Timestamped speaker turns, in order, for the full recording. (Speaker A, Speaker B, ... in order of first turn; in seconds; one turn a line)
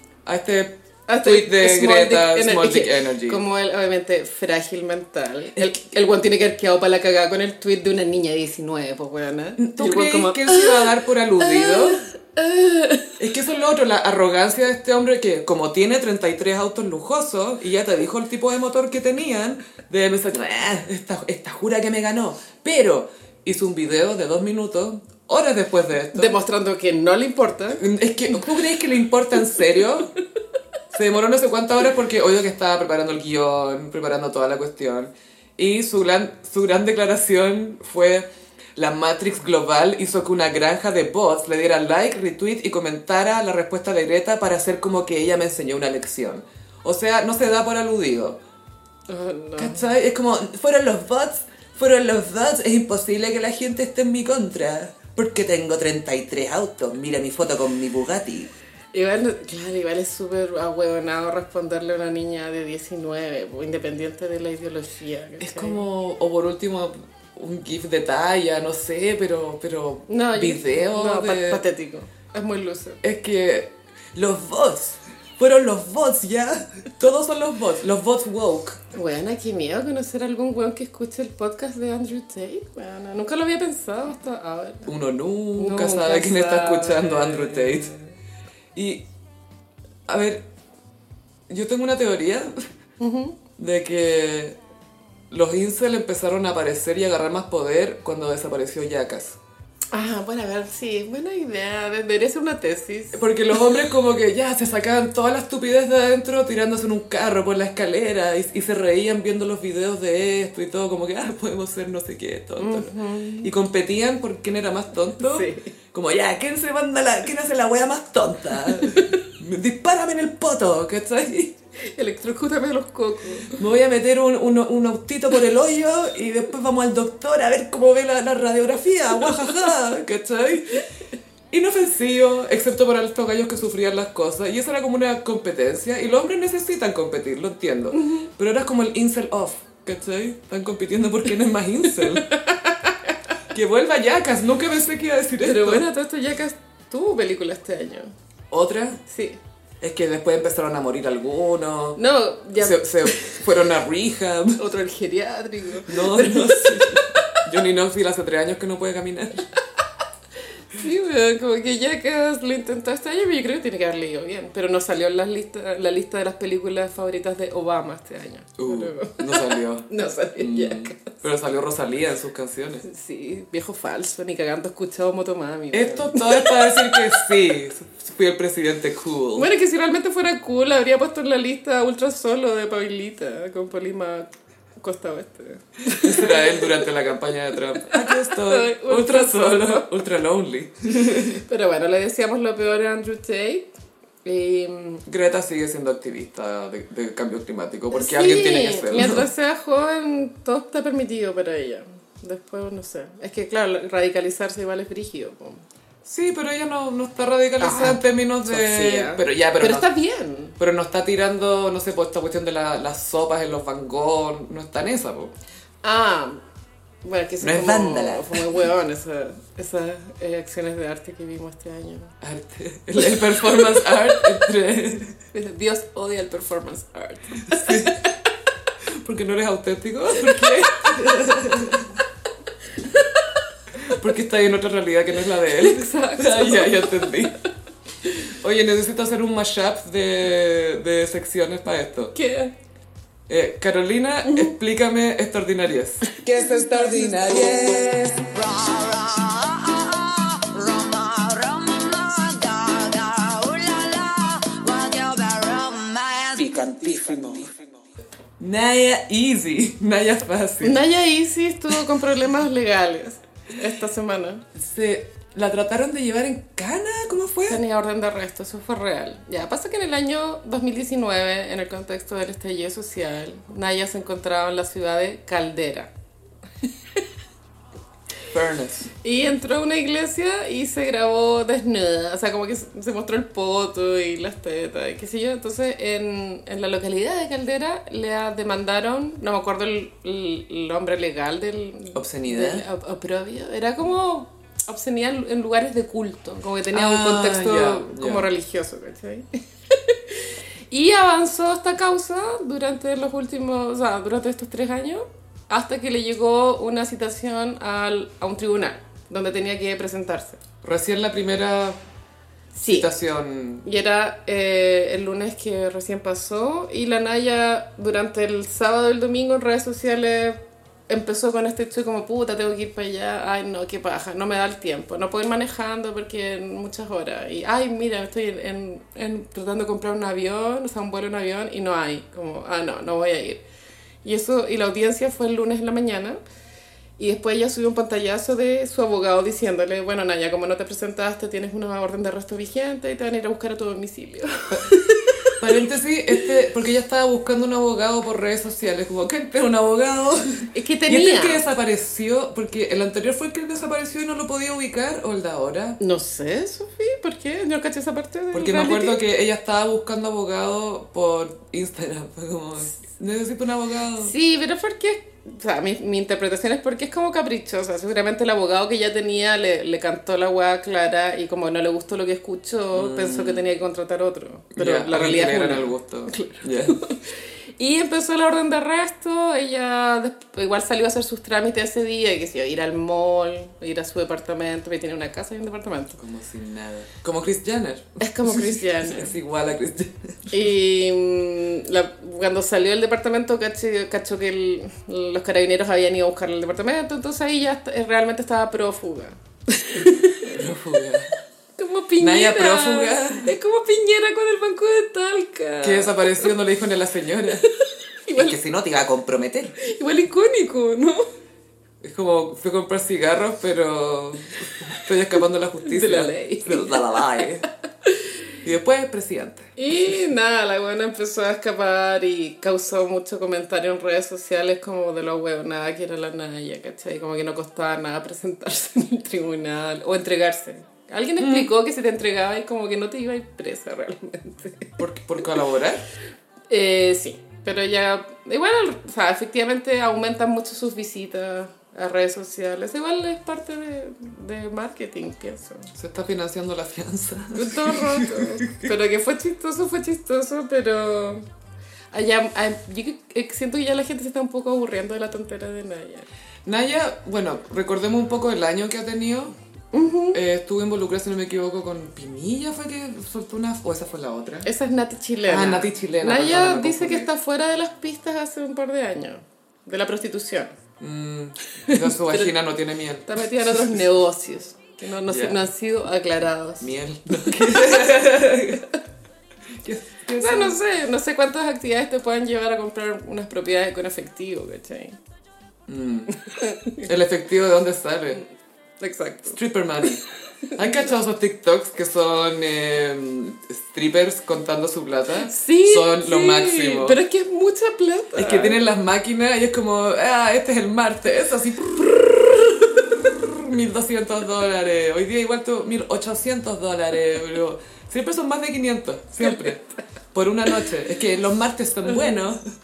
Speaker A: 0.2-3.4
Speaker B: 1.1-13.2
Speaker A: 9.6-12.0
Speaker A: 13.2-26.3
Speaker B: 26.1-28.4
Speaker A: 27.8-30.1
Speaker A: 30.9-48.4
Speaker B: 49.1-49.9
Speaker A: 49.6-58.5
Speaker B: 58.9-65.8
Speaker A: 65.4-71.6
Speaker B: 70.1-73.0
Speaker A: 73.0-78.8
Speaker B: 78.9-84.9
Speaker A: 84.9-87.9
Speaker B: 85.6-88.1
Speaker A: 88.7-89.0
Speaker A: 90.1-90.5
Speaker A: 91.5-92.6
Speaker B: 93.0-93.4
Speaker A: 93.6-94.6
Speaker A: 95.3-99.4
Speaker B: 99.9-103.6
Speaker A: 103.1-121.5
Speaker B: 112.6-113.5
Speaker B: 115.2-115.7
Speaker B: 121.8-123.6
Speaker A: 123.5-130.8
Speaker A: 131.5-142.3
Speaker B: 137.9-138.3
Speaker B: 142.2-143.1
Speaker A: 143.5-145.8
Speaker B: 145.4-148.1
Speaker A: 148.5-149.0
Speaker B: 149.1-149.4
Speaker A: 149.8-152.0
Speaker B: 151.9-153.5
Speaker A: 152.5-154.6
Speaker B: 154.6-157.4
Speaker A: 155.8-159.5
Speaker B: 160.7-171.1
Speaker A: 168.6-172.8
Speaker B: 172.8-177.2
Speaker A: 175.7-179.5
Speaker B: 179.3-186.9
Speaker A: 185.9-191.4
Speaker B: 187.8-189.9
Speaker B: 191.4-193.7
Speaker B: 194.2-195.0
Speaker A: 195.1-199.3
Speaker B: 197.9-205.6
Speaker A: 206.0-209.9
Speaker B: 207.6-210.6
Speaker A: 210.6-215.3
Speaker B: 215.8-216.4
Speaker B: 217.0-222.2
Speaker A: 217.4-218.6
Speaker A: 222.2-225.2
Speaker B: 225.3-228.0
Speaker A: 227.5-228.0
Speaker A: 228.8-232.0
Speaker B: 232.8-233.3
Speaker A: 233.8-237.3
Speaker B: 235.5-237.2
Speaker A: 238.3-242.1
Speaker B: 242.1-242.5
Speaker A: 243.3-248.3
Speaker B: 244.2-244.5
Speaker B: 246.2-247.5
Speaker C: 248.3-257.5
Speaker A: 258.4-260.8
Speaker B: 260.6-264.4
Speaker A: 264.6-267.6
Speaker B: 267.5-275.9
Speaker A: 278.3-278.9
Speaker B: 279.0-310.4
Speaker A: 291.9-292.6
Speaker A: 296.7-298.3
Speaker A: 310.6-311.8
Speaker B: 312.5-312.9
Speaker A: 312.7-313.6
Speaker B: 313.6-333.4
Speaker B: 334.0-336.2
Speaker B: 337.0-345.4
Speaker A: 345.4-355.8
Speaker B: 350.5-351.4
Speaker B: 355.8-359.0
Speaker A: 358.3-364.1
Speaker B: 364.0-386.0
Speaker A: 372.7-373.5
Speaker A: 374.5-376.8
Speaker A: 386.0-390.5
Speaker B: 388.0-389.1
Speaker B: 390.3-400.4
Speaker A: 400.2-401.1
Speaker B: 401.6-406.3
Speaker A: 402.0-403.3
Speaker A: 405.6-407.4
Speaker B: 407.4-408.4
Speaker A: 408.1-409.5
Speaker B: 409.6-411.1
Speaker A: 411.8-417.5
Speaker B: 415.6-418.1
Speaker A: 418.4-419.5
Speaker B: 419.6-434.8
Speaker A: 431.2-431.5
Speaker A: 434.8-435.8
Speaker B: 436.5-445.7
Speaker A: 445.8-448.7
Speaker B: 447.3-451.3
Speaker B: 451.9-456.1
Speaker A: 456.4-459.3
Speaker B: 459.7-460.2
Speaker A: 460.1-464.5
Speaker B: 464.4-470.5
Speaker A: 465.2-467.1
Speaker A: 470.8-473.8
Speaker B: 471.6-472.3
Speaker B: 473.1-477.9
Speaker A: 475.1-475.4
Speaker A: 476.6-478.6
Speaker A: 479.6-480.6
Speaker B: 480.2-485.0
Speaker A: 485.7-486.1
Speaker B: 486.2-486.9
Speaker A: 486.7-488.2
Speaker B: 488.8-489.4
Speaker A: 489.3-490.0
Speaker B: 490.5-490.8
Speaker A: 490.5-497.0
Speaker B: 495.2-498.6
Speaker A: 498.1-512.4
Speaker B: 511.9-512.2